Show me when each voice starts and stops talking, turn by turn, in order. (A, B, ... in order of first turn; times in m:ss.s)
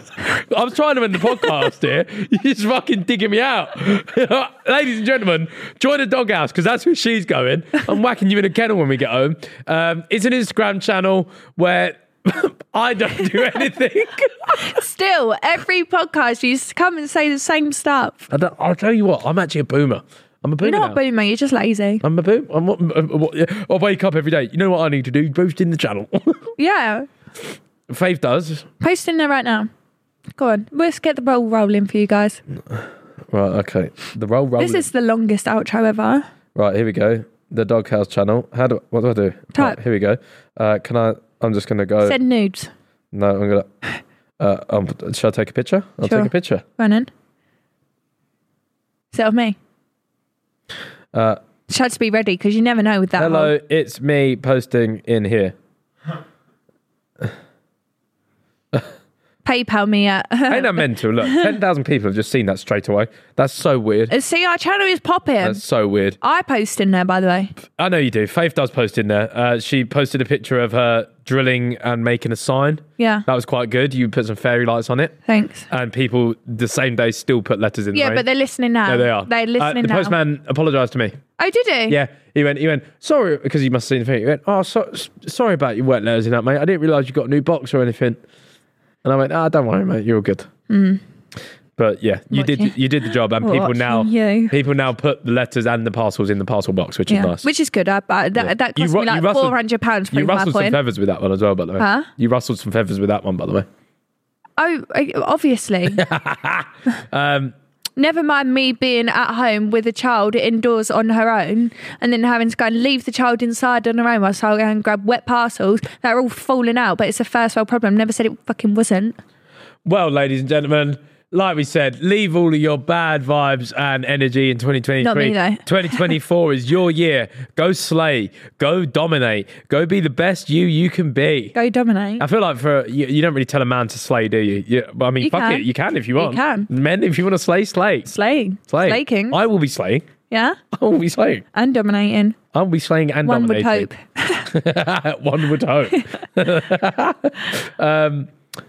0:00.2-0:14.7 A
0:14.5-0:18.3 B
0:18.3-0:21.0 A
0:20.6-0:22.0 B
0:22.0-0:26.5 A
0:26.6-0:27.0 B
0:27.9-0:28.7 A
0:28.8-0:29.7 B
0:30.4-0:32.4 B
0:32.7-0:34.9 A
0:34.6-0:36.2 B
0:36.5-0:42.2 A
0:42.0-0:42.7 B
0:43.1-0:43.7 A
0:44.4-0:46.6 A
0:46.0-0:47.1 B
0:49.1-0:49.6 B
0:51.1-0:51.4 A
0:51.7-0:53.5 B
0:53.2-0:55.5 A
0:59.4-1:01.5 B
1:00.5-1:04.1 A
1:04.1-1:05.6 B
1:05.4-1:06.2 A
1:06.2-1:07.5 B
1:07.6-1:15.1 A
1:13.0-1:13.2 B
1:15.3-1:15.7 B
1:15.7-1:18.2 A
1:17.9-1:20.1 B
1:18.8-1:21.2 A
1:21.4-1:22.0 B
1:21.9-1:28.2 A
1:29.0-1:30.5 A
1:30.7-1:31.0 B
1:31.8-1:37.4 A
1:32.3-1:34.5 B
1:37.1-1:40.8 B
1:38.4-1:39.6 A
1:40.1-1:43.7 A
1:41.8-1:42.1 B
1:44.6-1:46.0 B
1:45.9-1:47.5 A
1:48.0-1:59.2 B
1:59.8-2:11.5 A
2:05.0-2:06.1 B
2:11.5-2:12.2 B
2:12.2-2:18.1 A
2:15.2-2:16.7 B
2:18.0-2:19.4 B
2:18.7-2:20.1 A
2:20.3-2:20.6 B
2:20.7-2:21.4 A
2:21.5-2:22.4 B
2:22.5-2:23.9 A
2:23.2-2:24.5 B
2:24.5-2:28.3 A